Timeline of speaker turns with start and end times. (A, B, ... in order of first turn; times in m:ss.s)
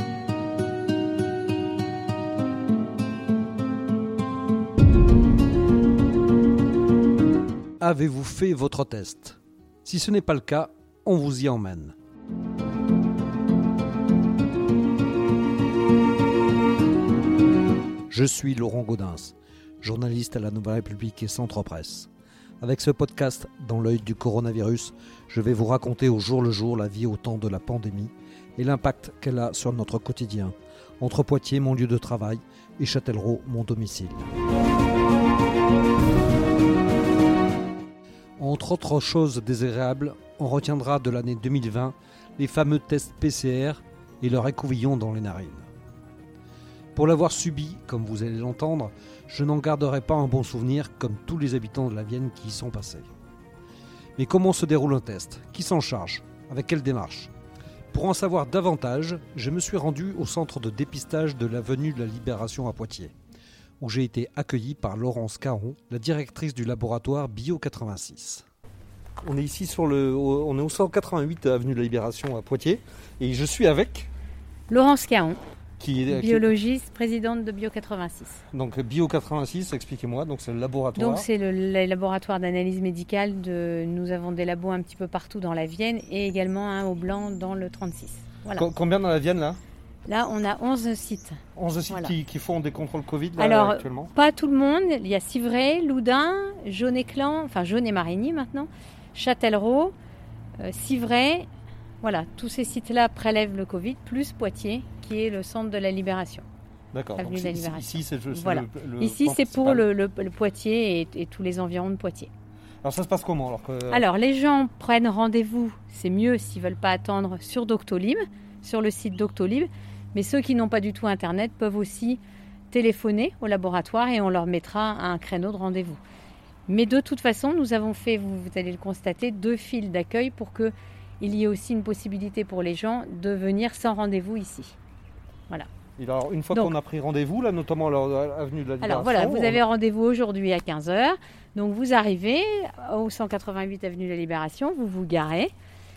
0:07.8-0:11.9 A
0:18.1-0:22.1 A
0:22.6-0:34.3 A
0:38.4-0:45.7 A
0:46.9-0:53.1 A
0:54.2-0:57.3 A
0:57.9-1:03.1 A
1:03.8-1:08.4 A
1:09.2-1:14.1 A
1:14.7-1:15.4 B
1:15.8-1:16.5 A
1:16.1-1:18.4 B
1:18.5-1:21.3 A
1:21.0-1:28.7 B
1:28.6-1:29.6 A
1:30.1-1:32.1 B
1:31.6-1:34.1 A
1:33.4-1:39.9 B
1:40.6-1:41.5 B
1:42.0-1:46.4 B
1:46.9-1:49.8 A
1:47.2-1:52.3 B
1:52.8-1:54.0 A
1:53.9-2:06.0 B
2:06.7-2:14.7 B
2:16.0-2:19.6 A
2:18.8-2:25.5 B